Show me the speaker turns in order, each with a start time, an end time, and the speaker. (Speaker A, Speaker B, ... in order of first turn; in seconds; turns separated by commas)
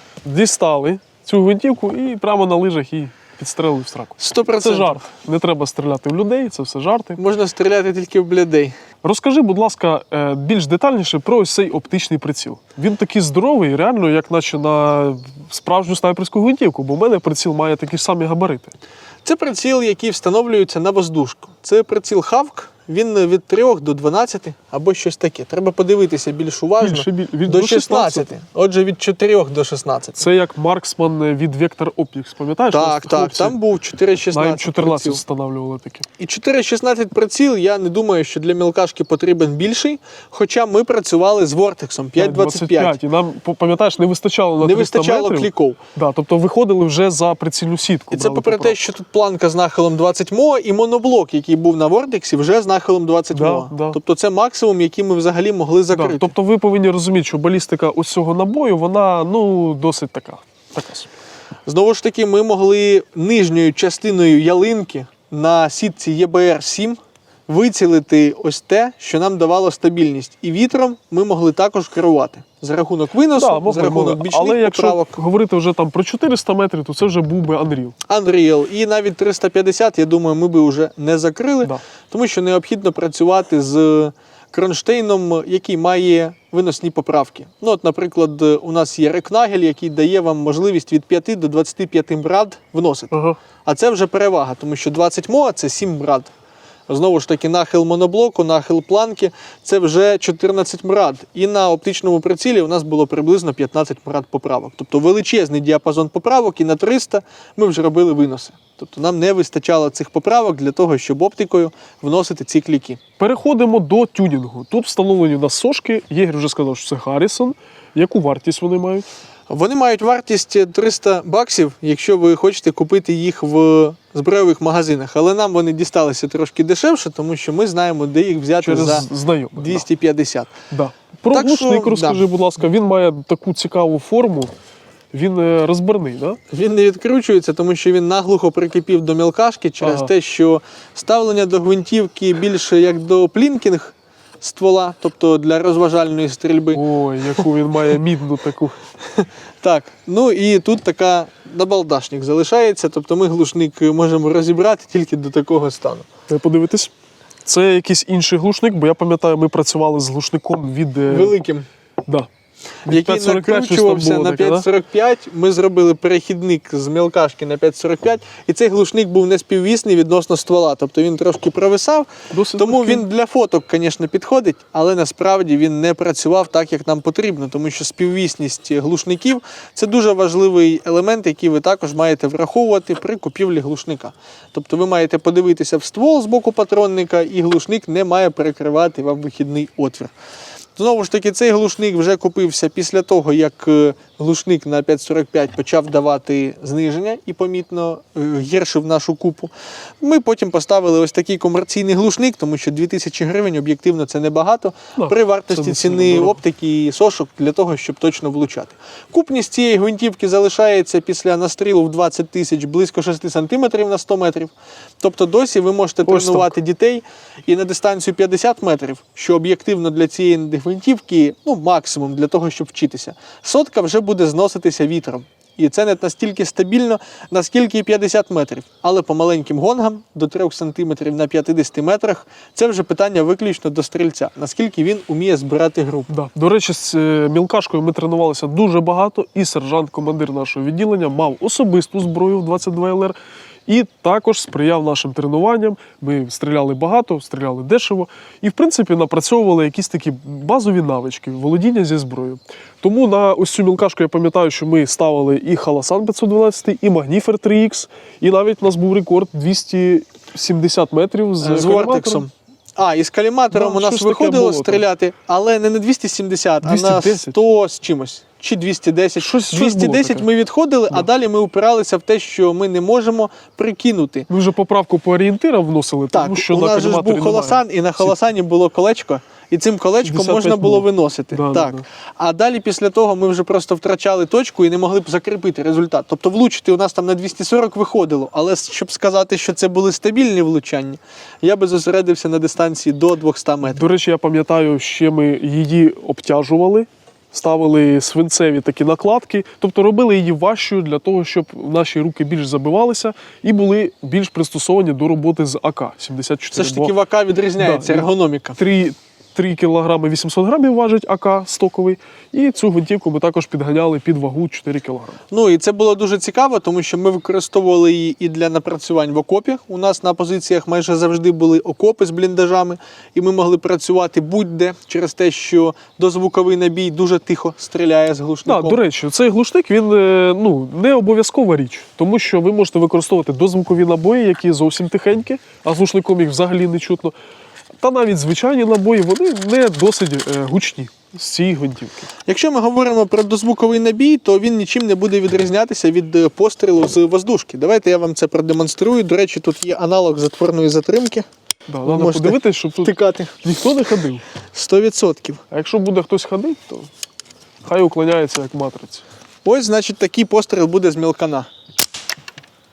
Speaker A: 0.2-7.2, Speaker B: 4.2-5.0, Speaker B: 7.2-8.8, Speaker A: 9.0-18.7, Speaker B: 19.2-30.2, Speaker A: 26.8-28.3, Speaker A: 30.2-33.5, Speaker B: 32.7-35.2, Speaker A: 34.3-36.1, Speaker B: 36.2-43.0, Speaker A: 42.1-48.8, Speaker B: 44.6-45.8, Speaker B: 48.1-56.3, Speaker A: 53.3-54.0, Speaker A: 55.9-61.1, Speaker B: 61.6-75.2, Speaker A: 73.3-78.0, Speaker B: 78.1-96.3, Speaker A: 93.1-93.4, Speaker B: 96.9-113.0, Speaker A: 113.2-119.1, Speaker B: 119.5-130.5, Speaker A: 128.6-129.8, Speaker A: 130.7-134.5, Speaker B: 131.3-132.2, Speaker A: 135.1-136.4, Speaker B: 136.5-146.8, Speaker A: 139.8-140.1, Speaker A: 146.7-148.8, Speaker B: 149.0-156.1, Speaker A: 156.3-156.9, Speaker A: 157.4-161.3, Speaker B: 161.1-161.7, Speaker A: 162.8-164.7, Speaker B: 162.9-190.1, Speaker A: 172.3-173.0, Speaker B: 190.8-236.1, Speaker A: 205.0-206.4, Speaker A: 216.0-216.5, Speaker A: 236.1-262.2, Speaker B: 261.4-274.3, Speaker A: 263.5-264.8, Speaker A: 266.6-267.4, Speaker A: 269.2-270.3, Speaker A: 274.3-278.1, Speaker B: 276.1-293.9, Speaker A: 280.0-281.8, Speaker A: 293.7-306.9, Speaker B: 306.5-308.6, Speaker A: 307.6-315.2, Speaker B: 315.3-328.8, Speaker A: 328.4-337.1, Speaker A: 337.8-342.1, Speaker B: 342.2-351.3, Speaker A: 351.7-354.2, Speaker B: 351.8-353.4, Speaker B: 354.5-355.4, Speaker A: 355.5-356.9, Speaker A: 357.6-359.0, Speaker B: 359.4-361.5